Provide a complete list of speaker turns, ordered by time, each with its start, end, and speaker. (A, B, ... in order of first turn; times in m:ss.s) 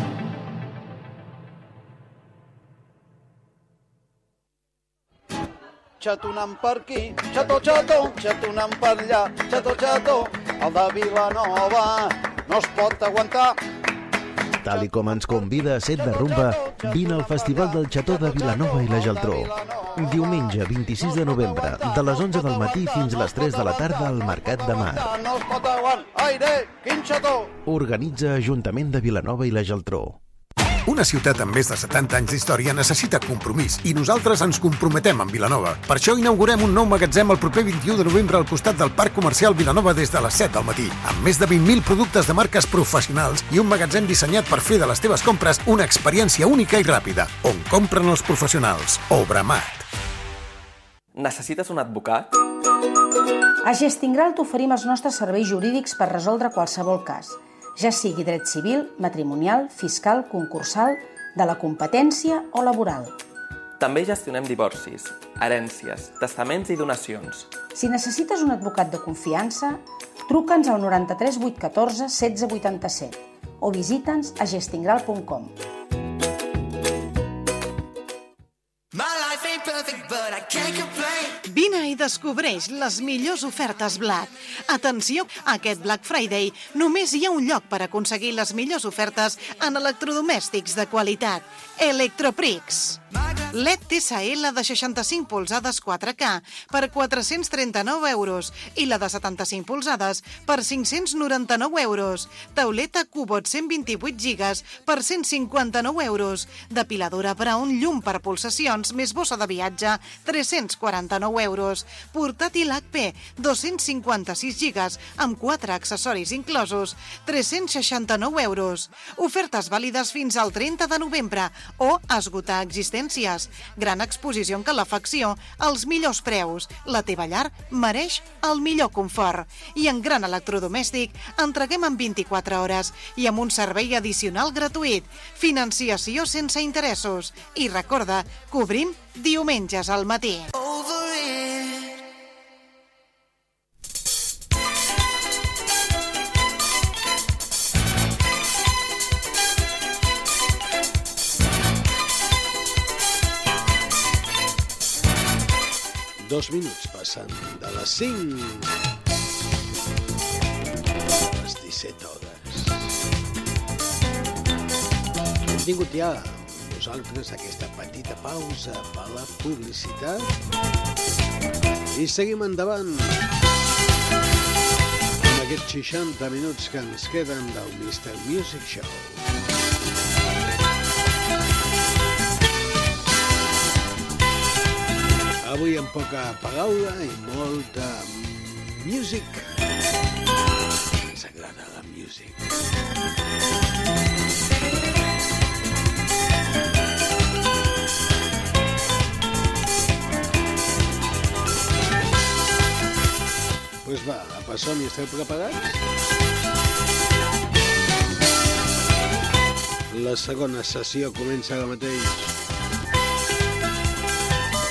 0:06.0-0:13.5 A
0:14.6-0:25.1 B
0:15.9-0:20.3 A
0:21.3-0:23.9 A
0:24.9-0:27.5 A
0:27.6-0:30.2 B
0:30.9-0:49.8 C
0:51.1-0:52.3 D
0:53.6-1:03.1 E
1:03.8-1:07.5 D
1:07.7-1:15.5 E
1:21.4-2:20.6 F
2:36.2-2:38.8 G
2:41.1-2:43.0 G
2:45.5-2:50.3 G
2:51.9-2:53.2 G
2:55.2-2:59.2 G
3:05.4-3:09.5 G
3:10.9-3:12.4 G
3:23.8-3:25.8 G
3:29.9-3:32.4 G